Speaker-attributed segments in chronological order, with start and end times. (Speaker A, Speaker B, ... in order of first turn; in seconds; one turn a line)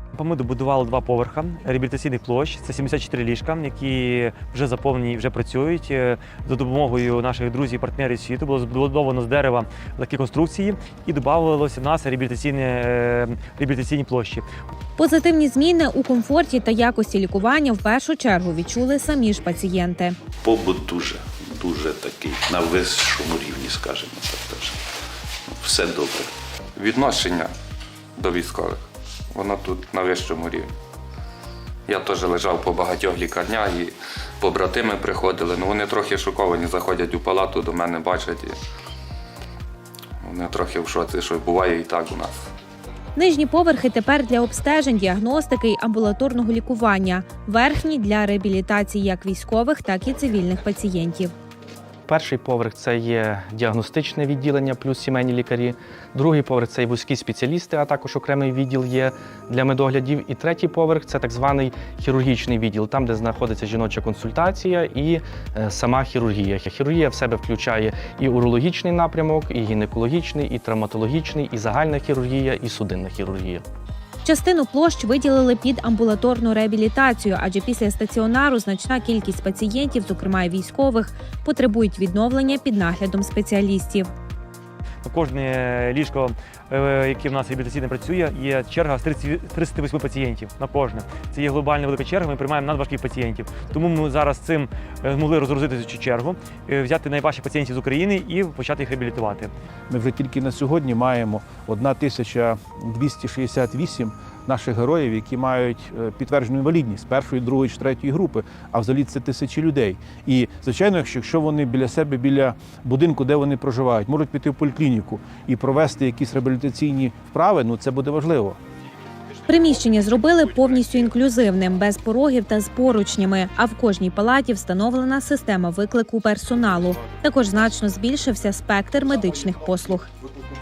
Speaker A: 0.1-14.4
Speaker B: 15.0-20.2
Speaker C: 20.4-24.8
Speaker C: 25.5-26.3
Speaker D: 26.8-27.5
Speaker D: 28.2-30.7
Speaker D: 31.9-38.6
Speaker D: 40.2-42.5
Speaker B: 43.1-51.3
Speaker E: 52.1-73.6
Speaker B: 74.2-84.1
Speaker A: 85.0-99.5
Speaker F: 99.9-118.6
Speaker B: 119.5-130.1